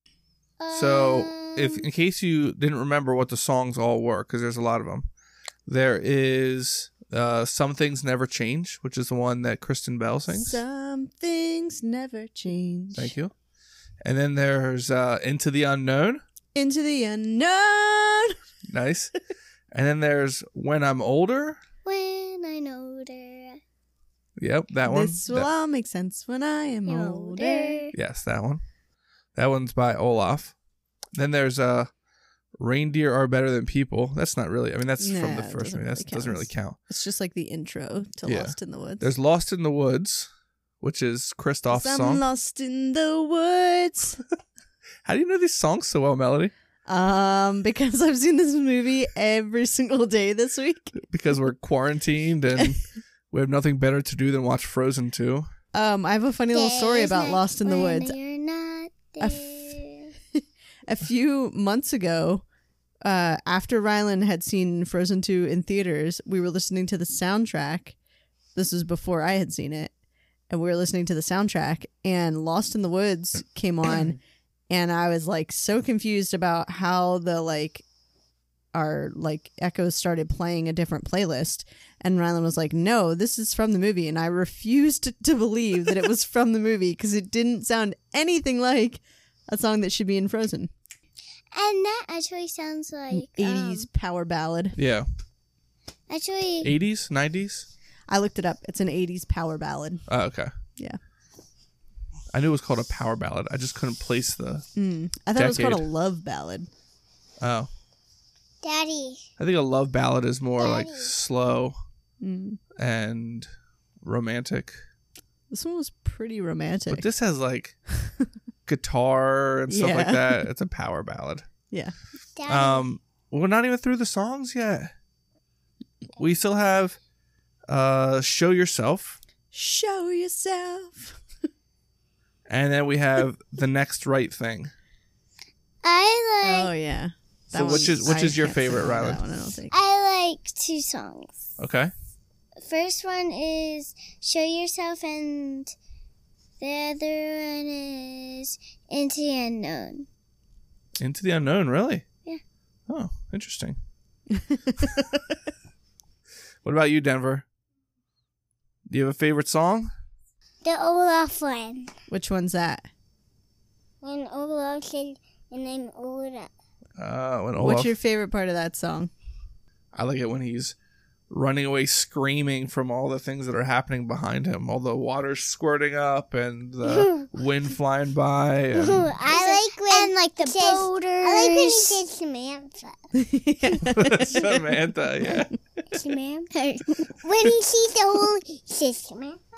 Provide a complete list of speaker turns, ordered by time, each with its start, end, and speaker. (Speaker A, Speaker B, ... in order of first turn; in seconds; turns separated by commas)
Speaker A: 0.6-1.8, Speaker B: 0.7-5.1, Speaker B: 5.7-10.6, Speaker C: 10.3-13.1, Speaker B: 12.9-13.3, Speaker B: 14.0-16.2, Speaker C: 16.5-18.3, Speaker B: 18.7-19.1, Speaker B: 19.7-21.6, Speaker A: 21.8-23.6, Speaker B: 24.4-25.5, Speaker C: 24.8-27.8, Speaker A: 26.9-27.9, Speaker B: 27.9-28.6, Speaker B: 29.4-30.5, Speaker B: 31.1-31.9, Speaker B: 32.6-36.8, Speaker C: 35.0-39.1, Speaker B: 38.2-40.3, Speaker B: 40.8-42.2, Speaker C: 41.7-44.2, Speaker B: 45.0-46.5, Speaker C: 46.9-50.9, Speaker B: 51.1-55.5, Speaker C: 55.7-58.1, Speaker A: 56.5-60.1, Speaker C: 59.2-59.8, Speaker C: 60.9-62.4, Speaker C: 63.0-68.0, Speaker C: 68.5-69.9, Speaker C: 70.5-74.2, Speaker C: 74.7-77.8, Speaker C: 78.7-90.7, Speaker A: 91.5-93.9, Speaker C: 93.1-94.8, Speaker B: 94.8-95.1, Speaker A: 96.1-96.7, Speaker B: 96.6-97.7, Speaker C: 98.1-100.0, Speaker B: 100.1-100.5, Speaker B: 102.3-104.7, Speaker C: 104.8-106.7, Speaker B: 105.3-105.8, Speaker B: 107.4-107.7, Speaker D: 108.6-109.2, Speaker B: 109.4-111.7, Speaker D: 110.6-111.1, Speaker C: 112.2-112.6, Speaker B: 112.8-113.5, Speaker B: 114.0-114.8, Speaker C: 115.5-117.1, Speaker B: 116.9-117.8, Speaker B: 118.7-121.5, Speaker C: 119.7-120.5, Speaker D: 122.4-122.8, Speaker B: 122.5-124.9, Speaker B: 126.2-127.0, Speaker B: 127.7-129.2, Speaker C: 129.5-131.2, Speaker B: 132.5-134.7, Speaker A: 135.8-136.7, Speaker C: 136.4-139.7, Speaker B: 137.5-139.2, Speaker A: 139.7-141.3, Speaker B: 141.6-141.9, Speaker A: 142.6-145.7, Speaker A: 146.6-150.1, Speaker B: 151.0-152.0, Speaker B: 152.9-153.8, Speaker C: 154.3-155.2, Speaker B: 156.6-157.4, Speaker B: 158.9-159.9, Speaker D: 160.6-161.9, Speaker C: 162.1-162.9, Speaker D: 164.0-166.5, Speaker B: 167.0-167.9, Speaker C: 167.6-169.1, Speaker B: 169.9-170.7, Speaker B: 171.3-179.1, Speaker D: 178.8-183.0, Speaker A: 179.3-182.0, Speaker C: 183.1-184.7, Speaker B: 183.9-185.5, Speaker D: 185.9-186.5, Speaker A: 186.5-187.1, Speaker D: 187.2-189.4